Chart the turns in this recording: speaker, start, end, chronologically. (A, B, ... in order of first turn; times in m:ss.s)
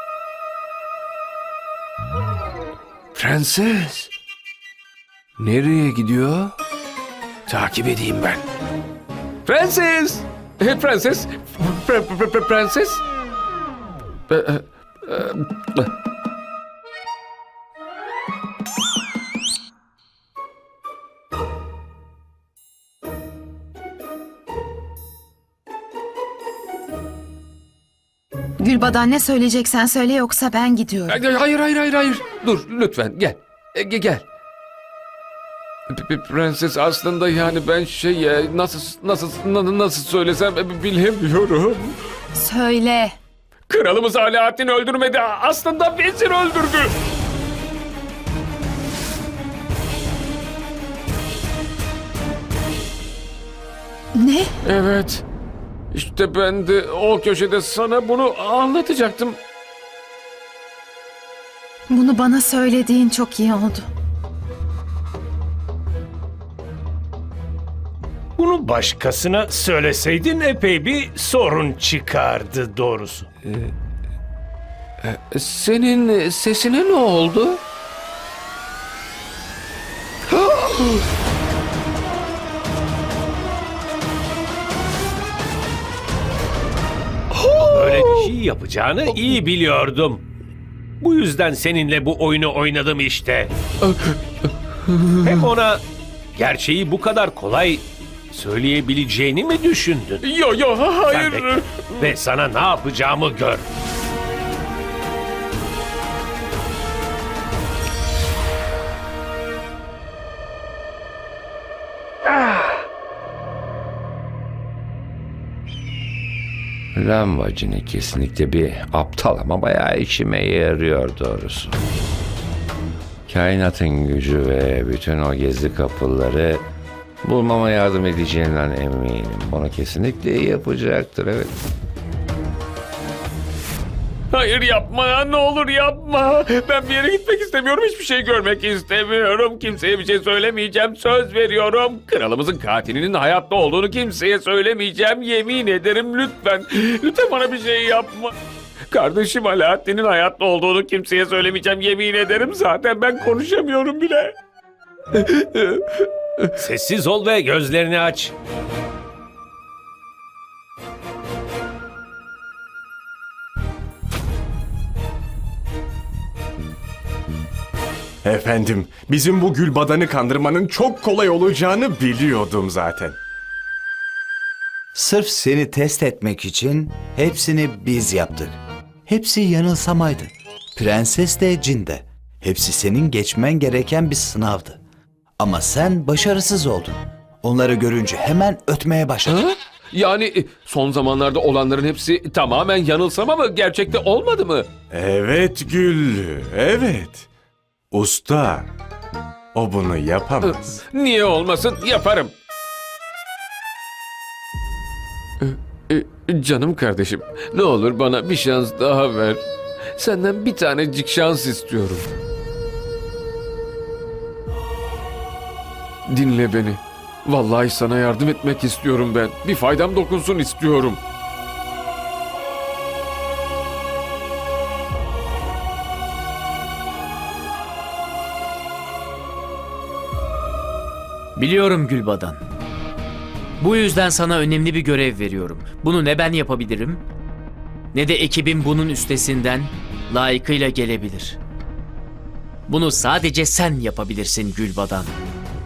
0:03.1-0:04.1 A
0:05.4-0:06.5 A
0:07.5-0:08.4 A
0:09.4-0:13.0 A
0:14.3-0:15.9 A
0:28.6-0:31.2 B
0:31.1-0:34.2 A
0:35.9-0:42.0 A
0:42.3-0:43.1 B
0:43.7-0:46.9 A
0:54.1-0:54.5 B
0:54.6-0:55.2 A
0:55.9-0:59.4 A
1:01.9-1:03.9 B
1:08.4-1:13.3 C
1:13.5-1:13.7 A
1:15.0-1:17.6 A
1:20.3-1:21.0 A
1:27.3-1:28.3 A
1:27.7-1:30.2 C
1:31.0-1:33.5 C
1:33.8-1:34.2 A
1:34.9-1:35.4 A
1:35.2-1:35.8 C
1:36.4-1:40.2 C
1:40.2-1:42.2 A
1:41.1-1:41.5 C
1:42.0-1:43.6 C
1:56.9-2:01.8 D
2:03.3-2:06.6 D
2:07.2-2:11.5 D
2:14.3-2:28.3 A
2:28.9-2:34.4 A
2:35.1-2:36.0 A
2:36.6-2:38.3 C
2:48.2-2:53.2 E
2:54.9-3:04.8 F
3:05.4-3:09.4 F
3:09.3-3:14.7 A
3:14.9-3:17.2 E
3:17.9-3:18.7 E
3:19.5-3:20.8 E
3:20.4-3:22.3 A
3:25.4-3:32.1 A
3:36.1-3:41.0 A
3:51.4-3:52.4 G
3:53.7-3:57.0 G
3:58.1-4:01.4 G
4:02.7-4:05.0 G